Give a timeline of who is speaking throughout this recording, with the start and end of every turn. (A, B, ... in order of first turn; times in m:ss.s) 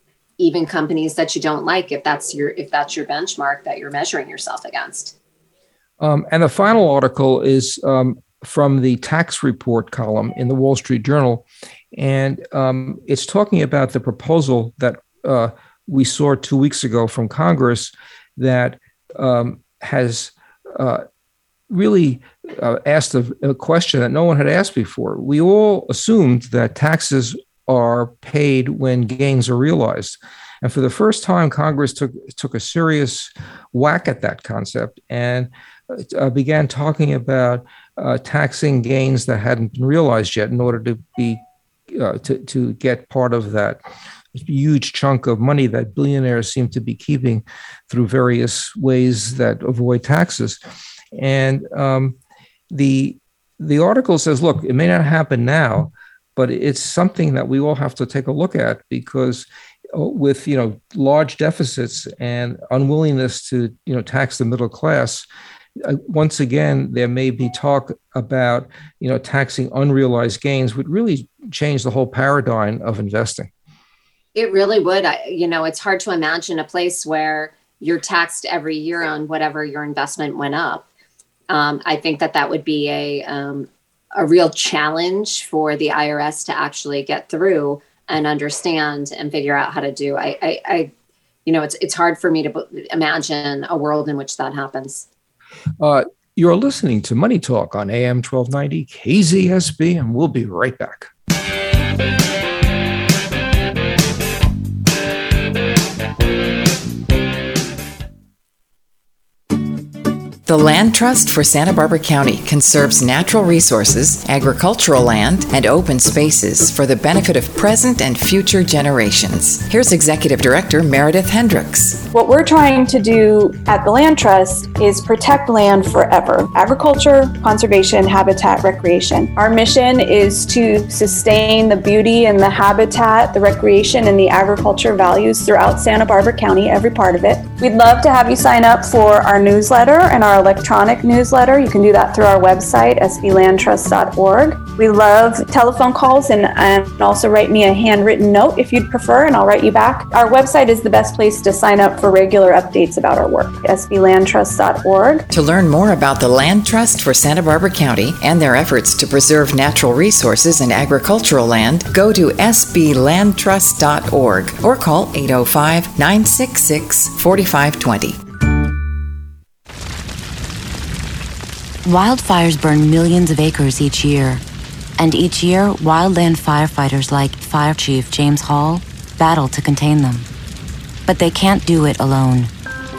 0:00.4-0:05.1 A
0:06.0-0:21.0 B
0:21.7-0:41.4 B
0:41.9-0:43.8 B
0:44.3-0:50.6 B
0:51.1-0:52.2 B
0:52.7-1:05.3 B
1:05.8-1:13.5 B
1:14.4-1:20.8 A
1:21.5-1:30.9 A
1:31.5-1:35.0 A
1:35.8-1:41.1 B
1:50.5-2:02.0 C
2:02.1-2:35.2 D
2:35.3-2:48.2 C
2:51.8-2:54.4 E
2:55.0-3:00.3 E
3:01.0-3:02.5 E